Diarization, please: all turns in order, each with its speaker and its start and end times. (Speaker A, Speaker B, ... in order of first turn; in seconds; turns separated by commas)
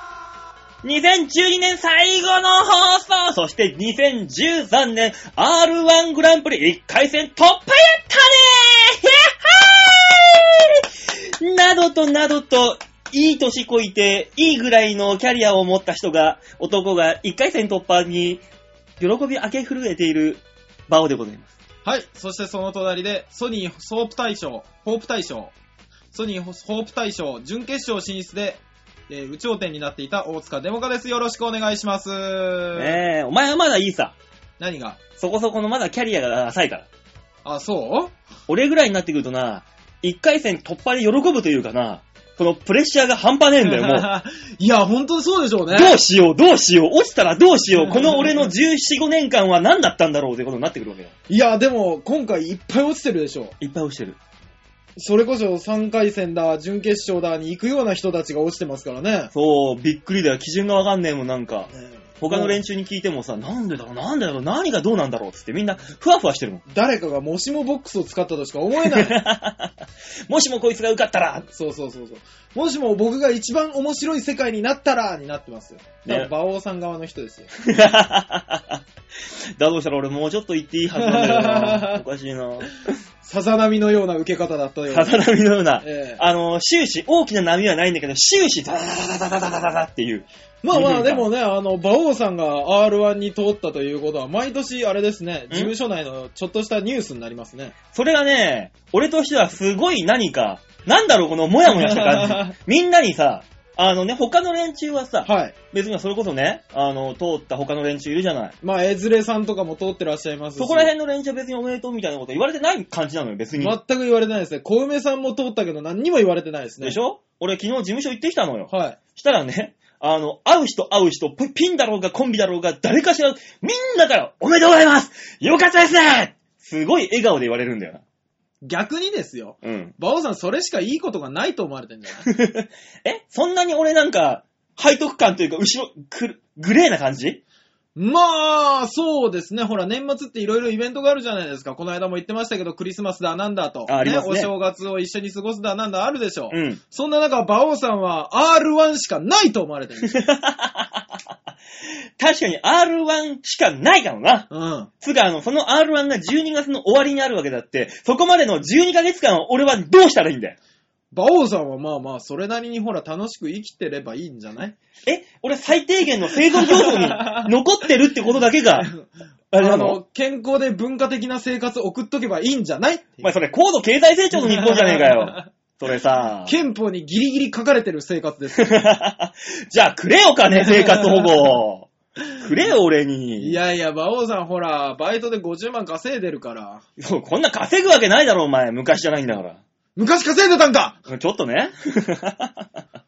Speaker A: 0.8-18.4, Speaker A: 19.0-21.5, Speaker B: 21.8-25.5, Speaker B: 26.1-33.0, Speaker A: 32.8-34.1, Speaker B: 34.6-35.0, Speaker A: 35.2-36.9, Speaker B: 37.4-38.1, Speaker A: 38.5-44.1, Speaker B: 43.6-46.0, Speaker A: 45.7-51.1, Speaker B: 47.7-48.5, Speaker B: 51.3-53.5, Speaker A: 53.6-54.2, Speaker B: 55.0-59.3, Speaker A: 59.3-66.6, Speaker B: 61.7-62.6, Speaker B: 66.7-69.2, Speaker A: 68.8-71.5, Speaker B: 71.5-77.5, Speaker A: 77.6-82.7, Speaker B: 80.9-82.0, Speaker B: 83.2-85.2, Speaker A: 84.9-91.3, Speaker B: 85.8-86.2, Speaker B: 90.6-97.7, Speaker A: 97.9-108.5, Speaker B: 101.7-102.5, Speaker B: 105.2-105.5, Speaker B: 108.6-110.9, Speaker A: 110.6-113.8, Speaker B: 113.6-117.0, Speaker A: 116.8-128.0, Speaker B: 118.7-119.0, Speaker B: 128.6-132.3, Speaker A: 129.6-129.9, Speaker A: 132.2-137.4, Speaker B: 137.9-150.2, Speaker A: 143.9-144.5, Speaker A: 146.5-146.8, Speaker A: 150.0-151.0, Speaker A: 152.2-154.5, Speaker B: 154.5-154.9, Speaker A: 155.0-160.6, Speaker B: 161.1-164.8, Speaker A: 165.1-168.9, Speaker B: 166.5-167.5, Speaker B: 168.7-173.3, Speaker A: 169.5-170.0, Speaker A: 173.2-176.5, Speaker B: 174.3-175.5, Speaker B: 176.4-178.8, Speaker A: 178.6-183.6, Speaker B: 180.5-181.6, Speaker B: 183.4-186.8, Speaker A: 187.0-189.6, Speaker B: 189.9-191.0, Speaker A: 191.1-192.8